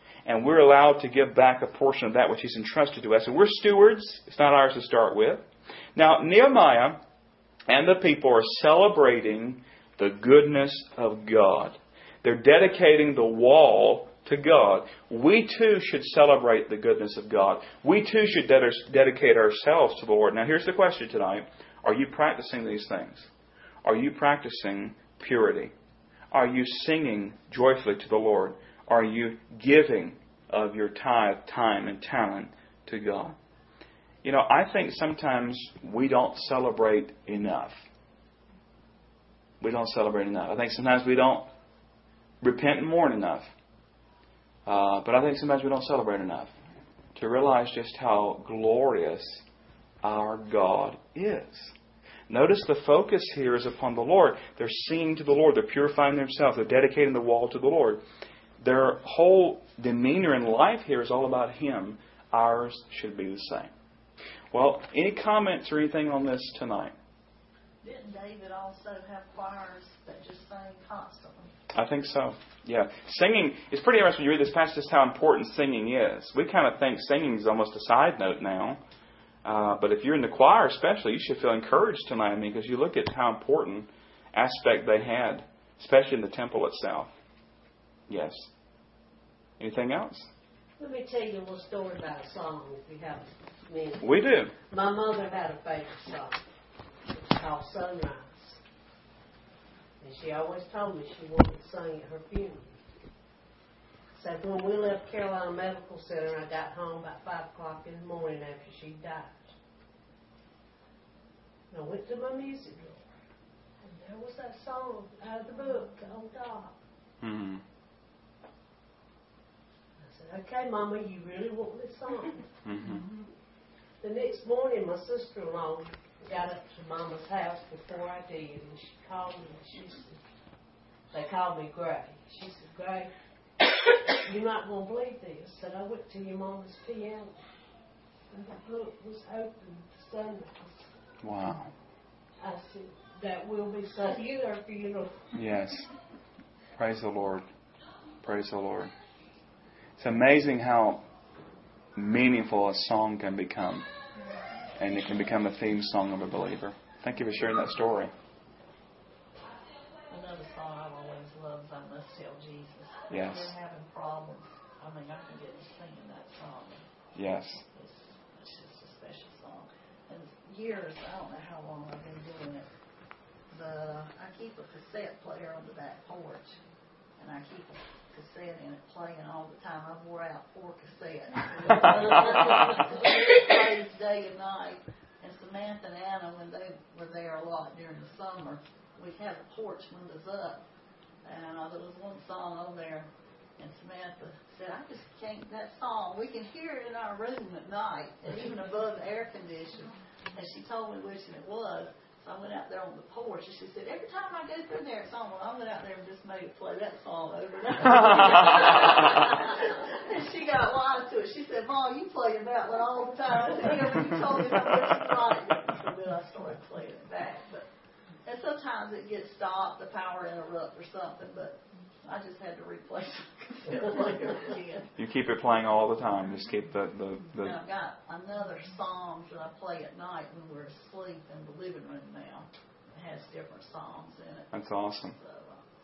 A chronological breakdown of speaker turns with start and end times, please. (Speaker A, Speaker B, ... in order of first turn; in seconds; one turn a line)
Speaker A: 0.3-5.4
Speaker A: 6.0-7.0
Speaker A: 7.7-23.3
Speaker A: 23.8-25.7
Speaker A: 26.3-33.4
Speaker A: 34.2-37.8
Speaker A: 39.6-41.5
Speaker A: 42.4-43.5
Speaker A: 44.7-46.5
Speaker A: 47.1-49.4
Speaker A: 50.0-51.7
Speaker A: 52.3-58.0
Speaker A: 58.6-63.7
Speaker A: 64.5-66.9
Speaker B: 67.8-71.5
Speaker A: 71.7-78.8
Speaker A: 79.5-87.1
Speaker A: 88.1-88.5
Speaker A: 89.6-90.3
Speaker C: 90.8-94.1
Speaker A: 94.0-94.5
Speaker C: 94.7-96.4
Speaker C: 97.1-98.6
Speaker C: 100.0-102.8
Speaker C: 104.2-109.5
Speaker C: 111.7-113.0
Speaker C: 113.8-116.8
Speaker A: 117.2-117.6
Speaker C: 120.0-122.5
Speaker A: 122.6-123.1
Speaker C: 124.0-130.2
Speaker C: 131.1-133.1
Speaker C: 134.2-137.4
Speaker C: 138.3-140.9
Speaker A: 141.2-141.7
Speaker C: 142.4-145.2
Speaker A: 145.3-145.9
Speaker A: 146.8-147.5
Speaker A: 148.2-148.9
Speaker A: 150.0-151.0
Speaker A: 151.9-153.9
Speaker A: 154.8-158.1
Speaker B: 160.1-166.9
Speaker A: 163.1-163.5
Speaker A: 167.2-167.6
Speaker B: 167.7-172.7
Speaker B: 173.5-176.6
Speaker B: 177.2-190.7
Speaker B: 191.2-217.7
Speaker B: 218.2-224.9
Speaker A: 225.0-227.6
Speaker B: 227.4-234.5
Speaker A: 234.5-235.2
Speaker B: 235.2-235.6